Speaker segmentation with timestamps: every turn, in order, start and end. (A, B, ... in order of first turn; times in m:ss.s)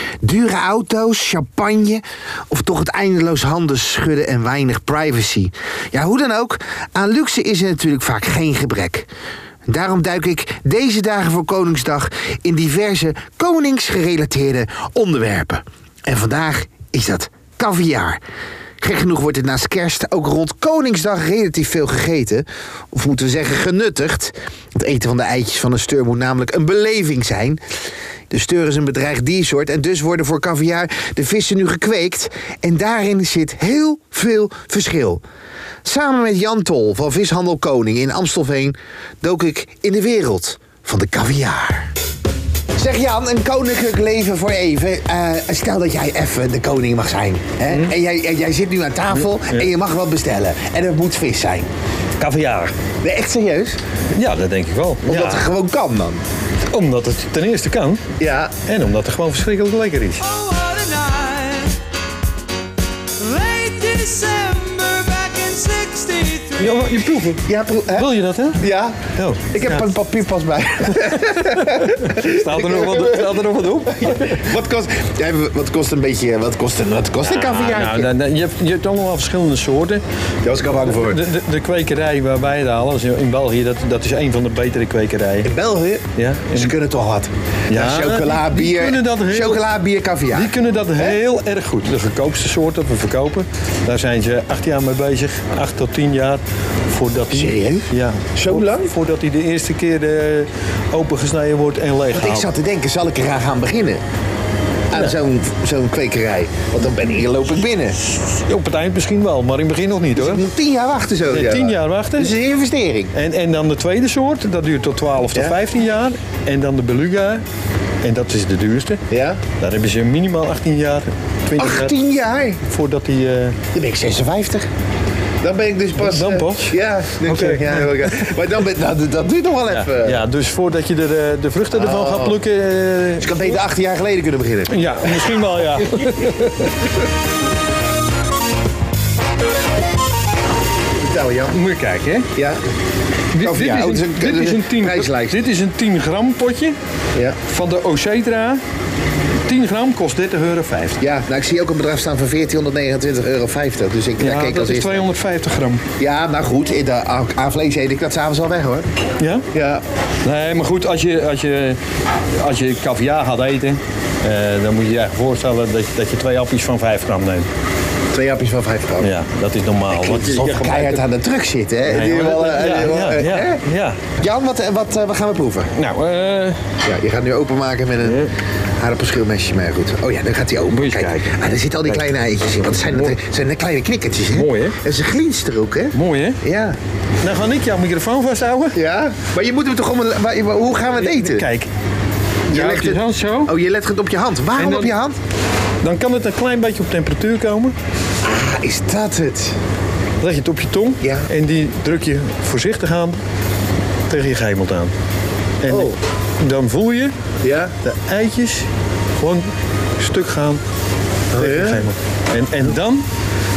0:00.2-0:09.1 A
0:09.7-0:18.2 A
0:18.8-0:27.6 A
0:28.3-0:35.2 A
0:35.8-0:41.9 A
0:42.8-0:51.7 A
0:49.2-0:49.7 B
0:52.2-0:52.7 B
0:53.0-0:53.8 A
0:54.1-0:55.4 B
0:55.0-0:56.2 A
0:56.7-0:58.0 B
0:58.2-0:58.5 A
0:58.6-1:00.3 B
1:00.3-1:01.8 C
1:03.2-1:06.7 C
1:06.6-1:08.6 B
1:07.4-1:18.1 A
1:09.2-1:09.9 B
1:10.9-1:14.5 B
1:17.2-1:20.0 B
1:20.4-1:21.3 A
1:20.8-1:25.5 B
1:25.4-1:31.2 A
1:26.2-1:26.7 B
1:27.7-1:29.6 B
1:30.3-1:42.5 B
1:37.3-1:38.9 A
1:42.1-1:44.0 A
1:44.9-1:48.0 A
1:48.0-1:50.4 B
1:50.2-1:53.1 A
1:51.3-1:52.3 B
1:53.1-1:57.4 B
1:58.0-1:59.0 B
1:59.1-1:59.4 A
1:59.6-2:01.9 B
2:01.6-2:02.6 A
2:02.7-2:03.6 B
2:03.7-2:04.7 A
2:05.4-2:10.2 A
2:06.0-2:08.3 B
2:09.7-2:13.6 B
2:11.7-2:12.4 A
2:13.2-2:14.8 A
2:14.7-2:16.9 B
2:21.0-2:21.6 A
2:21.5-2:22.3 B
2:23.3-2:26.8 B
2:23.4-2:25.4 A
2:27.5-2:28.6 B
2:29.4-2:31.0 B
2:31.0-2:35.1 A
2:34.2-2:35.8 B
2:36.0-2:38.9 A
2:39.2-2:39.4 B
2:39.5-2:39.8 A
2:40.2-2:41.8 B
2:42.4-2:47.5 B
2:48.1-2:49.1 A
2:49.0-2:51.0 B
2:49.9-2:53.6 A
2:51.8-2:54.0 B
2:54.2-2:55.7 A
2:55.7-2:56.6 B
2:56.8-3:06.8 A
2:58.0-2:58.3 B
3:00.7-3:02.0 B
3:02.9-3:03.1 B
3:04.3-3:04.8 B
3:05.9-3:06.4 B
3:07.2-3:08.8 B
3:08.7-3:11.4 A
3:11.0-3:11.7 B
3:12.5-3:13.5 B
3:12.5-3:15.2 A
3:14.6-3:15.0 B
3:15.8-3:17.7 B
3:18.2-3:19.6 A
3:20.2-3:23.2 B
3:21.0-3:21.3 A
3:24.1-3:24.9 B
3:25.6-3:27.1 B
3:25.7-3:26.0 A
3:27.4-3:27.7 A
3:27.8-3:28.7 B
3:29.2-3:30.6 B
3:31.3-3:31.9 A
3:31.3-3:33.1 B